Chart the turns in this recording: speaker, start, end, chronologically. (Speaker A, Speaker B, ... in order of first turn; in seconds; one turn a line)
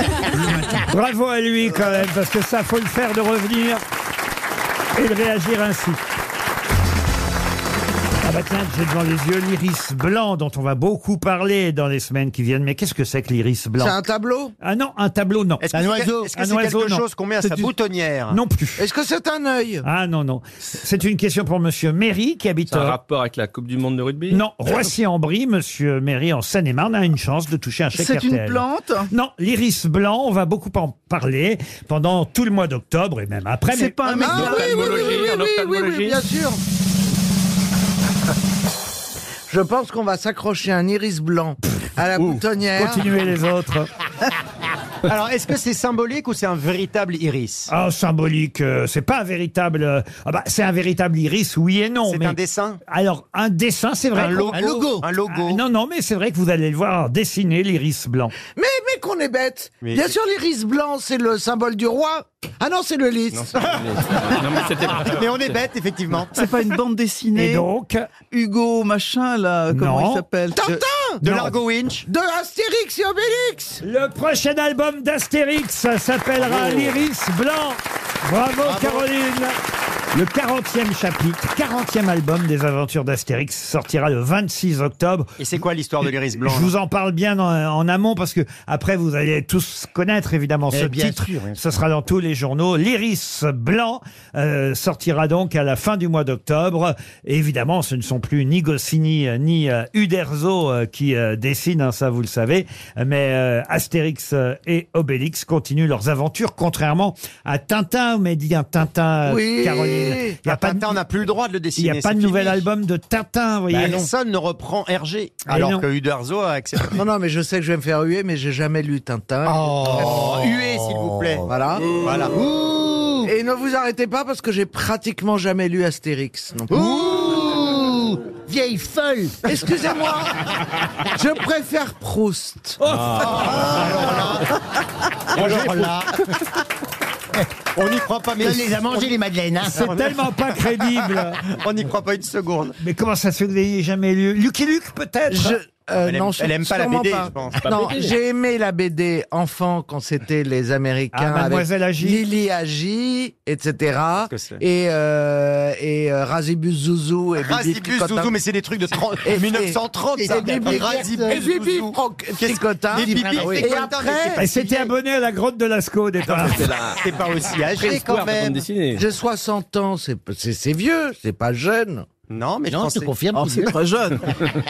Speaker A: 0.8-3.8
Speaker A: 5.0-6.0
Speaker A: 8.2-13.9
Speaker B: 13.8-14.5
Speaker A: 14.6-15.6
Speaker C: 15.6-18.4
Speaker D: 15.7-16.3
Speaker A: 16.3-17.0
Speaker A: 18.3-18.8
Speaker B: 18.8-19.8
Speaker A: 19.8-23.0
Speaker E: 22.7-24.4
Speaker A: 24.3-34.5
Speaker F: 27.9-29.1
Speaker F: 33.7-35.3
Speaker B: 34.0-36.6
Speaker E: 34.3-36.2
Speaker B: 39.5-43.1
Speaker A: 42.8-43.9
Speaker C: 45.0-47.7
Speaker A: 47.7-58.3
Speaker C: 52.1-52.8
Speaker C: 54.1-55.6
Speaker D: 54.5-55.1
Speaker B: 58.5-63.6
Speaker C: 59.8-60.1
Speaker E: 63.3-65.5
Speaker C: 65.0-66.5
Speaker F: 66.3-67.7
Speaker A: 67.3-68.1
Speaker F: 68.3-70.6
Speaker A: 69.7-70.2
Speaker B: 70.5-71.2
Speaker C: 70.6-72.0
Speaker A: 71.2-71.5
Speaker B: 72.0-73.8
Speaker A: 73.8-79.5
Speaker C: 78.6-79.0
Speaker A: 80.1-85.3
Speaker C: 85.4-86.7
Speaker A: 86.4-110.9
Speaker D: 90.7-91.6
Speaker B: 109.2-110.4
Speaker C: 110.5-112.6
Speaker A: 111.8-114.1
Speaker C: 113.7-117.0
Speaker A: 115.5-115.8
Speaker B: 117.0-120.3
Speaker C: 119.4-121.5
Speaker D: 119.8-121.4
Speaker B: 121.4-121.9
Speaker C: 122.0-122.3
Speaker D: 122.3-123.3
Speaker B: 123.2-127.3
Speaker D: 126.7-129.4
Speaker B: 129.4-130.4
Speaker B: 131.1-132.8
Speaker A: 132.8-133.3
Speaker C: 133.2-134.5
Speaker D: 133.3-134.2
Speaker C: 135.3-136.2
Speaker D: 135.4-135.8
Speaker C: 137.7-139.2
Speaker D: 138.4-140.0
Speaker A: 139.6-141.4
Speaker C: 139.7-140.2
Speaker C: 141.5-142.7
Speaker A: 142.8-145.6
Speaker B: 145.3-158.3
Speaker C: 146.0-147.7
Speaker E: 147.6-148.1
Speaker A: 151.1-152.2
Speaker C: 154.3-154.6
Speaker C: 157.4-164.9
Speaker B: 159.2-164.4
Speaker D: 160.2-161.4
Speaker D: 162.9-163.9
Speaker A: 164.4-166.6
Speaker E: 166.2-167.0
Speaker C: 167.0-168.6
Speaker E: 167.7-169.0
Speaker B: 168.9-172.1
Speaker C: 172.3-173.2
Speaker D: 172.7-173.8
Speaker F: 173.3-174.2